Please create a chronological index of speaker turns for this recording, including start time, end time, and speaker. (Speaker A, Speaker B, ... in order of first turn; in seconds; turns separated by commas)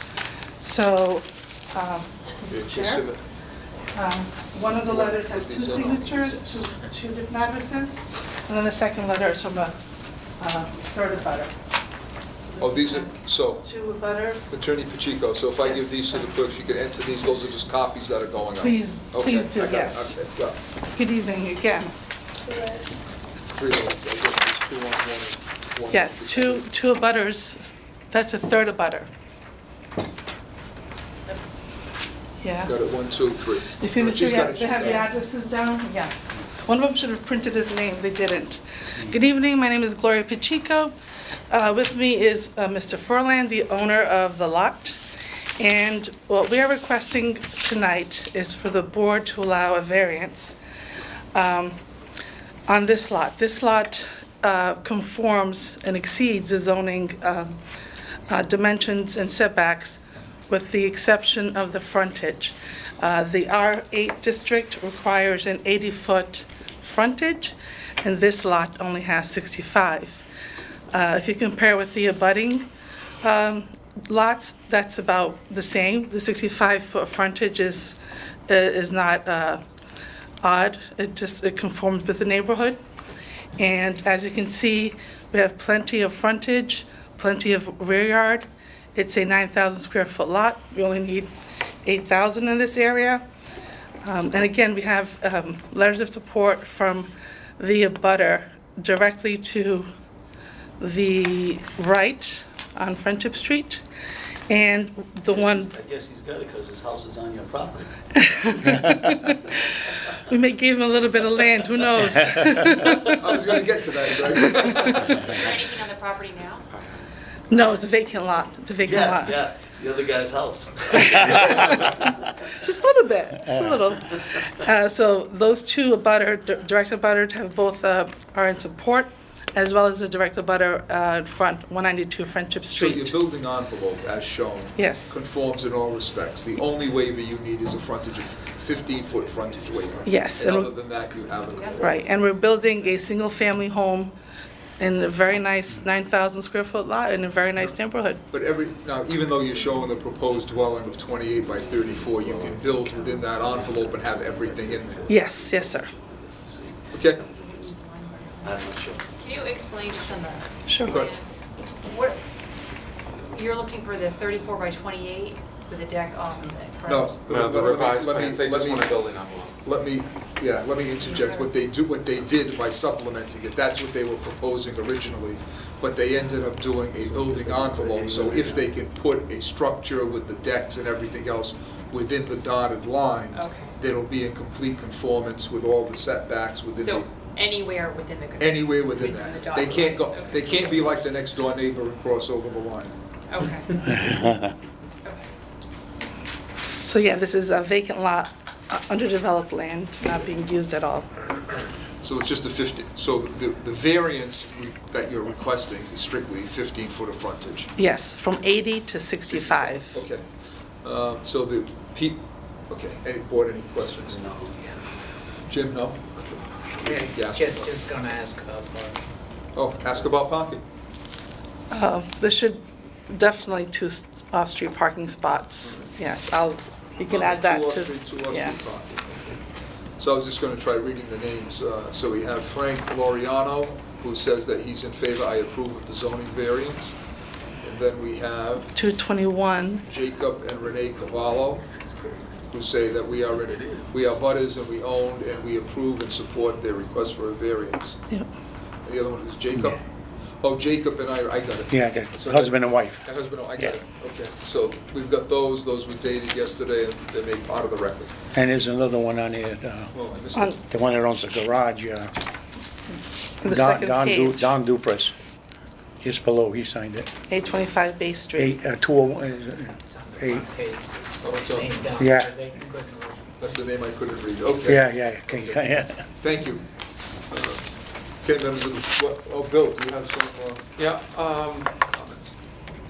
Speaker A: 0.6-3.1, Speaker B: 2.5-3.2, Speaker A: 4.0-9.8, Speaker B: 4.7-6.7, Speaker A: 10.4-11.5, Speaker A: 12.5-14.6, Speaker B: 12.6-13.7, Speaker B: 14.5-20.6, Speaker A: 15.7-16.2, Speaker A: 18.6-20.2, Speaker A: 20.9-21.9, Speaker B: 23.5-26.6, Speaker A: 25.9-29.1, Speaker A: 32.4-32.8, Speaker B: 32.6-35.1, Speaker A: 33.7-41.0, Speaker A: 41.5-45.0, Speaker A: 45.6-50.5, Speaker A: 51.3-51.8, Speaker A: 52.7-57.6, Speaker A: 58.3-70.2, Speaker A: 70.9-72.7, Speaker A: 73.2-78.0, Speaker A: 78.5-79.6, Speaker A: 80.4-82.8, Speaker A: 83.6-91.3, Speaker A: 91.8-93.2, Speaker A: 94.0-99.9, Speaker A: 100.8-103.8, Speaker A: 104.5-105.7, Speaker C: 105.3-107.9, Speaker A: 108.1-113.1, Speaker B: 113.2-115.3, Speaker A: 114.6-115.1, Speaker D: 115.1-116.7, Speaker E: 116.7-117.0, Speaker A: 117.5-119.4, Speaker C: 118.8-122.3, Speaker A: 121.2-122.0, Speaker A: 122.6-133.2, Speaker B: 132.7-142.0, Speaker A: 134.8-135.2, Speaker C: 139.2-140.4, Speaker A: 140.0-140.7, Speaker C: 141.1-141.9, Speaker D: 141.5-142.3, Speaker A: 141.8-144.1, Speaker A: 144.8-148.2, Speaker B: 148.3-155.1, Speaker C: 149.4-149.8, Speaker C: 150.3-157.9, Speaker A: 155.1-155.9, Speaker B: 156.9-157.2, Speaker D: 157.4-162.2, Speaker C: 158.4-159.1, Speaker A: 160.7-161.0, Speaker B: 160.8-161.1, Speaker D: 163.3-167.2, Speaker B: 166.8-169.1, Speaker E: 167.3-169.6, Speaker B: 169.6-187.1, Speaker D: 171.0-171.5, Speaker C: 177.0-178.7, Speaker D: 183.3-183.8, Speaker D: 186.8-191.4, Speaker B: 188.4-192.9, Speaker D: 193.3-193.8, Speaker F: 194.0-194.4, Speaker D: 195.0-195.3, Speaker A: 196.6-201.1, Speaker B: 202.0-207.7, Speaker A: 207.8-210.0, Speaker B: 209.3-210.3, Speaker B: 210.8-214.3, Speaker C: 214.0-214.6, Speaker B: 215.5-217.9, Speaker G: 216.8-219.1, Speaker B: 219.5-220.6, Speaker A: 221.7-228.6, Speaker B: 227.1-229.4, Speaker B: 230.0-237.0, Speaker B: 237.6-238.7, Speaker A: 238.8-239.9, Speaker B: 239.8-241.7, Speaker C: 241.2-242.2, Speaker B: 242.5-248.0, Speaker C: 243.3-243.9, Speaker B: 248.8-249.8, Speaker B: 250.4-258.1, Speaker F: 251.7-253.7, Speaker F: 258.3-260.0, Speaker B: 259.9-260.7, Speaker F: 260.6-262.1, Speaker A: 263.4-264.6, Speaker F: 263.4-265.1, Speaker F: 266.0-267.1, Speaker A: 267.3-268.6, Speaker F: 268.4-270.5, Speaker G: 269.9-273.3, Speaker B: 271.2-271.9, Speaker F: 272.0-272.4, Speaker B: 273.4-275.6, Speaker F: 274.6-276.1, Speaker B: 276.2-276.6, Speaker B: 277.3-277.6, Speaker B: 278.2-280.7, Speaker E: 280.8-281.9, Speaker B: 281.9-282.3